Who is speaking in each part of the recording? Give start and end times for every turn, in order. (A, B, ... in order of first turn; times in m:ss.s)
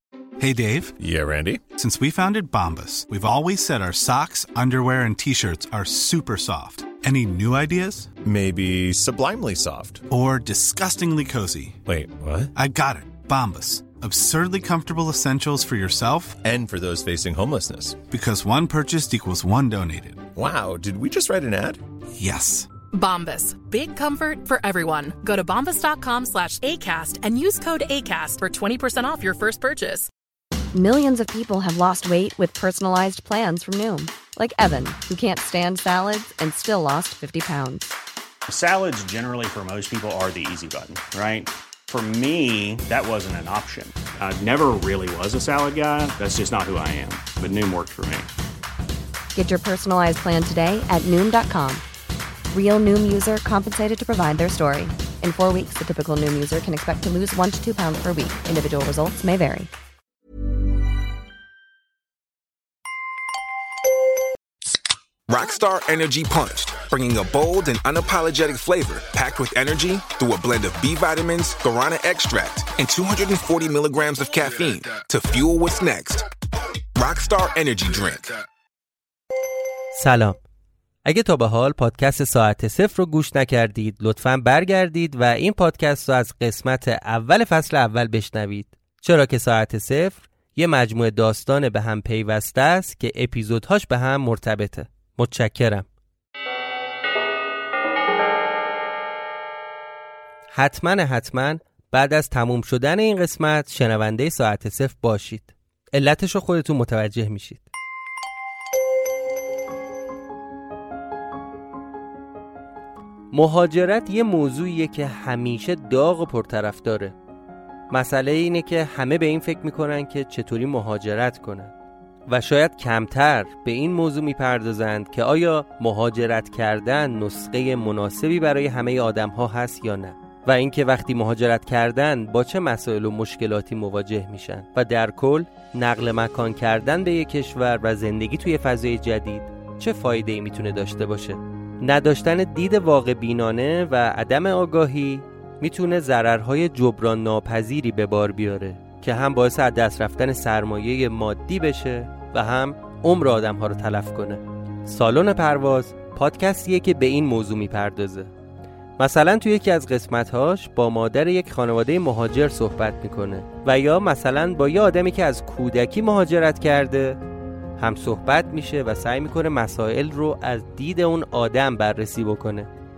0:00.4-0:00.9 A
0:01.0-0:01.7 B
0:01.6-0:08.1 A
0:08.2-0:10.0 B
0:10.1-0:11.8 A
0:11.8-0:12.5 B
0:12.5-0:16.4 A
0:16.4-0:18.0 B
0:18.1-0:20.3 A
0:20.3-0:21.8 B
0:22.2-0:22.7 A
0:22.9-0:30.1 C
0:30.7-0:37.9 D
0:38.5-0:48.3 E
0:49.3-0:51.8 D
0:52.5-0:59.7 D
1:05.3-1:16.3 F
1:16.9-1:18.4 F
1:19.9-1:20.4 G
1:21.0-1:35.9 G
1:40.5-1:47.7 G
1:53.3-1:57.1 G
1:57.9-2:01.7 G
2:02.3-2:38.3 G
2:39.0-2:47.2 G
2:47.8-2:52.7 G